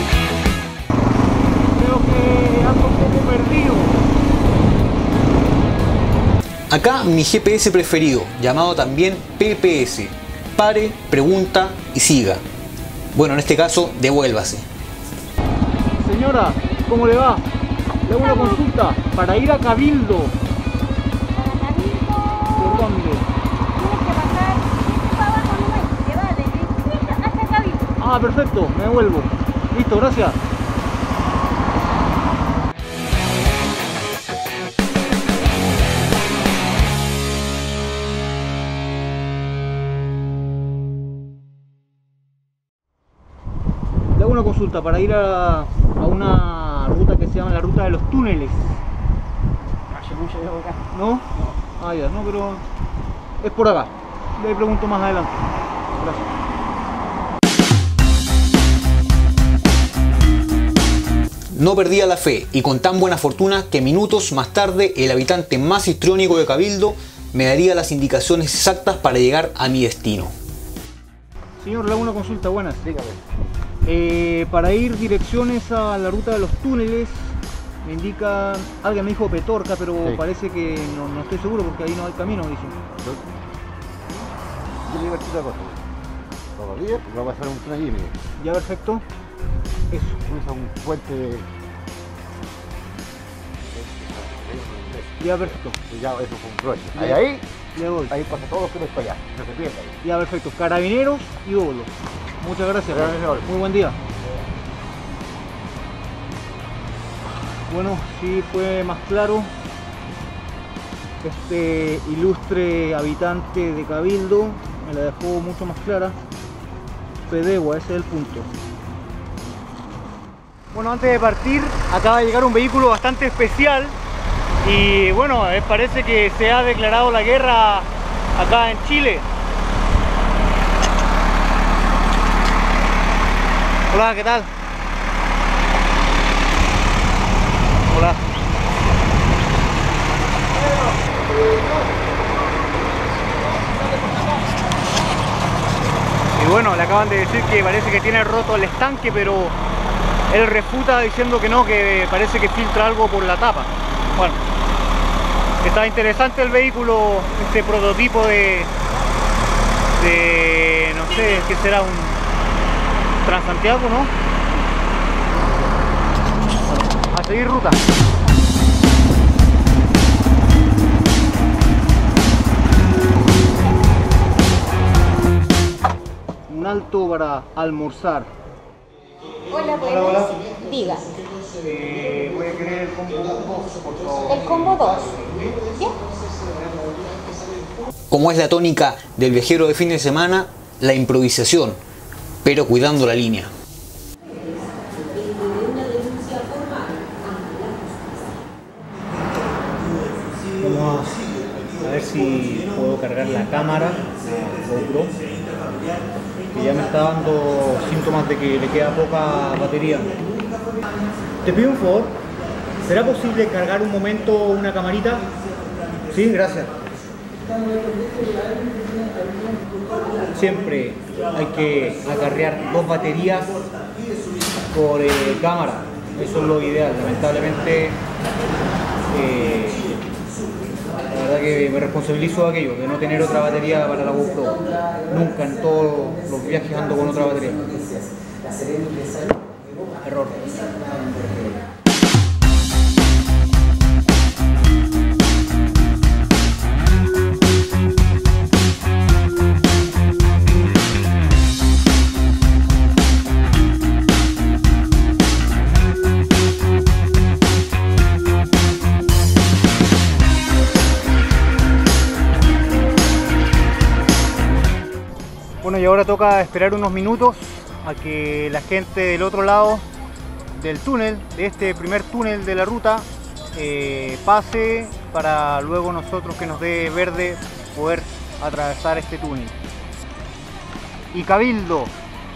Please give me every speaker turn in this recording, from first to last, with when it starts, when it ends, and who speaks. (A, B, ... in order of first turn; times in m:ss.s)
0:01.7-0:03.9 A
0:06.7-0:12.4 B
0:13.1-0:14.6 B
0:16.0-0:17.4 A
0:18.0-0:20.4 A
0:18.1-0:18.6 C
0:21.3-0:22.9 C
0:22.5-0:23.3 A
0:23.7-0:27.9 C
0:28.0-0:30.4 A
0:44.1-0:48.8 A
0:50.0-0:50.7 D
0:50.9-0:51.2 A
0:51.8-0:52.6 A
0:53.4-0:56.2 A
1:01.5-1:10.3 B
1:11.6-1:12.8 A
1:12.8-1:13.2 D
1:13.8-1:22.8 A
1:24.8-1:25.8 D
1:26.6-1:28.1 D
1:28.4-1:29.0 A
1:29.9-1:30.2 A
1:30.2-1:31.5 D
1:33.7-1:37.4 D
1:35.2-1:35.8 A
1:37.0-1:37.2 A
1:37.7-1:38.1 A
1:38.1-1:40.0 D
1:40.0-1:44.0 A
1:42.9-1:43.5 D
1:47.7-1:49.5 A
1:51.2-1:56.2 A
1:57.3-1:58.5 A
2:00.7-2:03.9 A
2:04.6-2:09.3 A
2:13.9-2:14.5 A
2:17.9-2:18.2 A
2:23.8-2:24.3 A
2:26.3-2:29.6 A
2:30.3-2:34.4 A
2:35.6-2:38.7 A
2:40.0-2:42.2 A
2:43.2-2:44.1 A
2:46.9-2:47.8 A
2:56.5-2:58.3 A
2:59.5-3:01.0 C
2:59.8-3:00.4 A
3:01.6-3:05.3 A
3:04.3-3:05.1 C
3:08.1-3:11.8 B
3:12.4-3:13.5 B
3:15.7-3:16.2 C
3:20.6-3:25.2 A
3:26.5-3:30.2 A
3:31.4-3:32.2 A
3:32.8-3:35.3 A
3:36.1-3:36.7 A
3:40.2-3:43.5 A
3:44.7-3:48.0 A
3:49.1-3:49.9 A
3:51.0-3:57.9 A
4:00.0-4:00.7 A
4:25.6-4:29.8 A
4:30.5-4:39.6 A
4:41.1-4:41.9 A